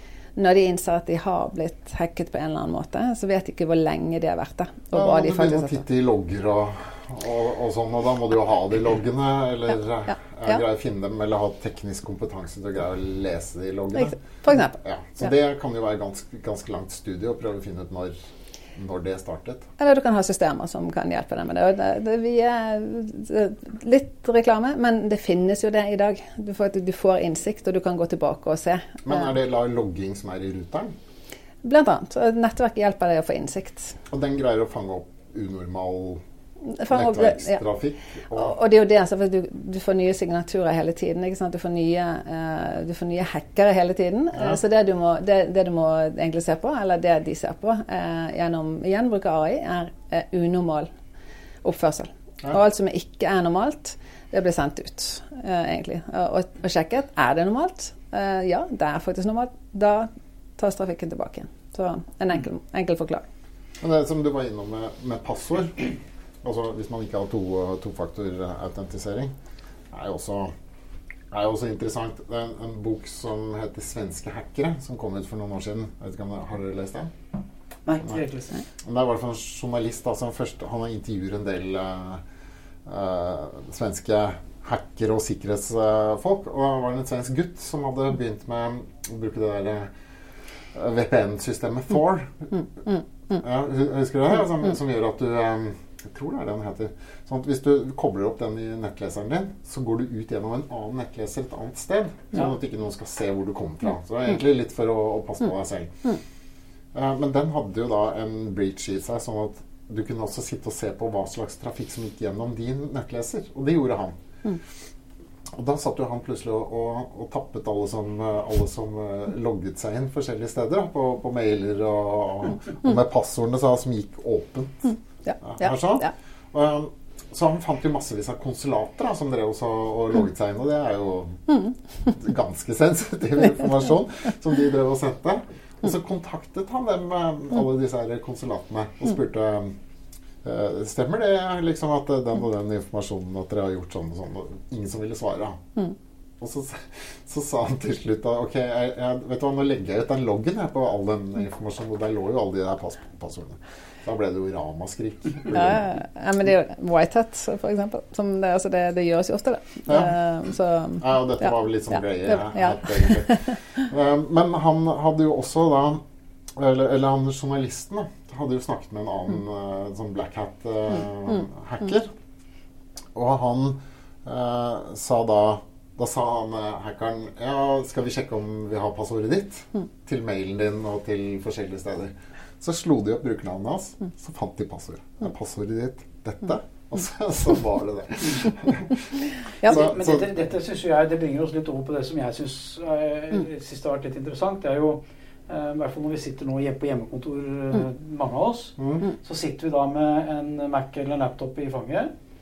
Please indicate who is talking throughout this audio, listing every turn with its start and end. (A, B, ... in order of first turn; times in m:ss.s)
0:00.4-0:05.8 A
0:04.9-0:18.2 B
0:14.0-0:14.8 A
0:18.7-0:19.7 B
0:19.8-0:29.2 A
0:29.0-0:30.9 B
0:31.6-0:34.0 A
0:34.1-0:36.2 B
0:36.6-0:37.6 A
0:36.9-0:38.5 B
0:38.3-0:50.9 A
0:51.6-1:03.2 A
1:03.8-1:09.3 B
1:09.9-1:10.5 B
1:11.3-1:17.1 B
1:17.9-1:18.6 C
1:18.8-1:22.2 B
1:22.8-1:29.9 B
1:30.7-1:32.5 B
1:33.3-1:46.2 B
1:46.9-1:54.1 B
1:55.5-2:19.8 B
2:05.2-2:06.1 A
2:20.4-2:25.6 B
2:26.4-2:36.0 B
2:35.5-2:43.8 A
2:39.9-2:40.2 B
2:41.0-2:46.0 B
2:46.5-2:52.1 B
2:53.1-3:10.3 B
3:09.6-3:22.1 C
3:18.8-3:19.0 B